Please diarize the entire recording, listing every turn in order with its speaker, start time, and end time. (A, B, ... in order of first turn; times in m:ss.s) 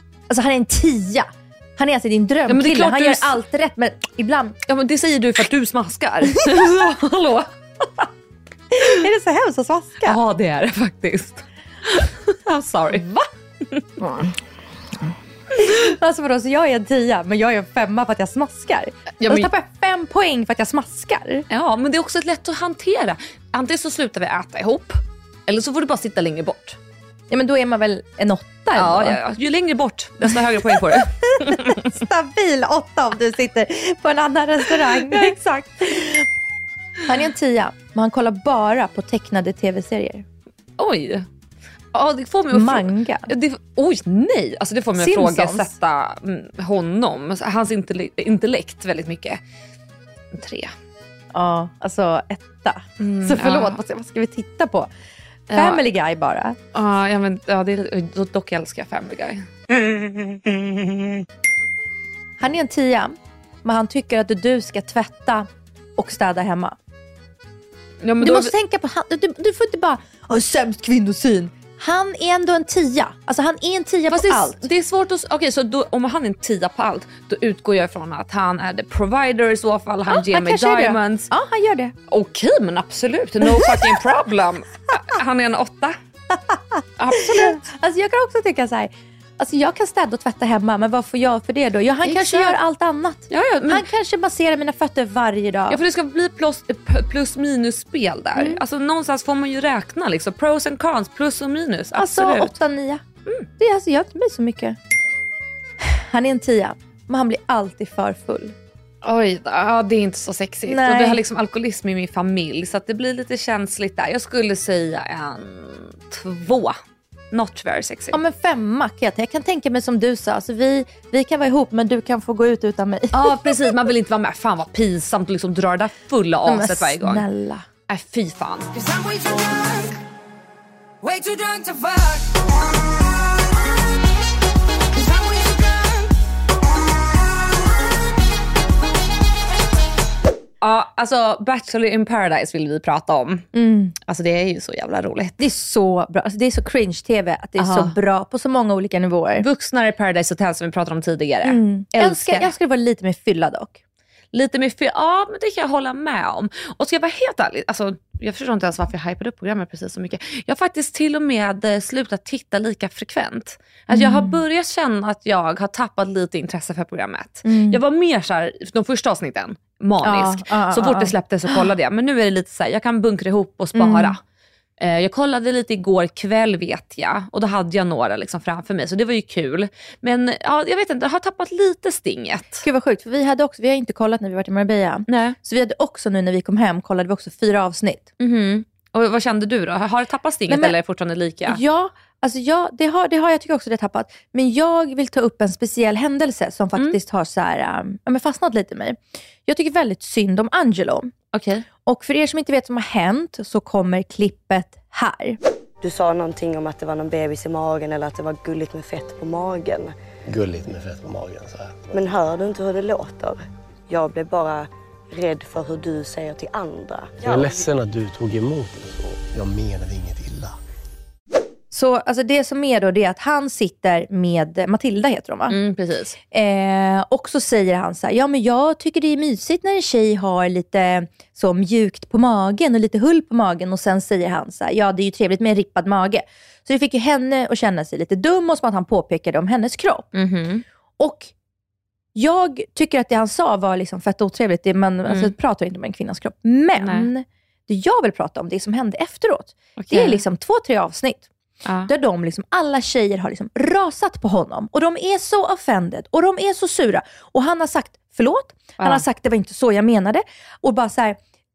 0:00.3-0:04.6 A
0:02.5-0:03.4 B
0:04.7-0:08.1 B
0:06.3-0:06.7 A
0:08.7-0:10.2 A
0:10.0-0:13.9 B
0:15.6-0:21.5 A
0:19.2-0:19.5 B
0:21.5-0:26.8 B
0:27.3-0:29.2 A
0:28.7-0:31.9 B
0:30.2-0:36.3 A
0:34.8-0:35.4 B
0:37.1-0:40.2 A
0:40.8-0:41.3 B
0:41.9-0:49.4 B
0:42.5-0:43.3 A
0:45.0-0:45.7 A
0:50.3-0:50.7 B
0:51.3-0:54.9 A
0:53.0-0:53.8 B
0:55.5-0:55.8 B
0:55.5-0:56.6 A
0:56.7-0:59.5 B
1:02.4-1:06.8 A
1:08.0-1:08.5 B
1:08.2-1:14.6 A
1:14.1-1:21.3 B
1:20.1-1:21.9 A
1:22.1-1:26.0 B
1:23.4-1:24.0 A
1:26.3-1:35.8 A
1:27.0-1:27.6 B
1:32.0-1:32.6 B
1:33.3-1:33.9 B
1:35.7-1:42.5 B
1:38.4-1:38.6 A
1:41.9-1:43.0 A
1:43.6-1:44.8 A
1:45.8-1:48.6 A
1:49.0-1:56.8 B
1:50.7-1:51.2 A
1:57.3-1:58.2 B
1:58.1-2:03.7 A
2:03.1-2:07.2 B
2:06.4-2:07.7 A
2:07.9-2:08.7 B
2:08.7-2:10.0 C
2:11.0-2:12.5 C
2:14.9-2:16.1 C
2:20.6-2:23.5 B
2:23.5-2:24.0 A
2:24.0-2:25.4 B
2:25.4-2:29.4 A
2:27.6-2:28.0 B
2:29.4-2:32.5 B
2:31.4-2:33.8 A
2:34.3-2:54.2 B
2:43.9-2:44.4 A
2:47.4-2:47.8 A
2:50.0-2:51.6 A
2:53.8-2:54.2 A
2:54.8-3:02.6 B
3:02.6-3:08.1 A
3:05.1-3:05.4 B
3:08.2-3:11.6 B
3:10.5-3:10.8 A
3:11.5-3:21.1 A
3:21.3-3:21.6 B
3:21.8-3:25.4 A
3:25.8-3:30.0 D
3:30.3-3:31.7 E
3:31.9-3:37.7 D
3:37.3-3:40.5 E
3:41.7-3:45.6 A
3:45.5-3:46.2 B
3:46.3-4:00.1 A
4:00.2-4:00.6 B
4:01.0-4:01.3 A
4:02.2-4:11.3 A
4:05.1-4:05.3 B
4:06.8-4:07.1 B
4:09.8-4:10.2 B
4:11.6-4:11.9 B
4:11.9-4:21.2 A
4:18.8-4:19.0 B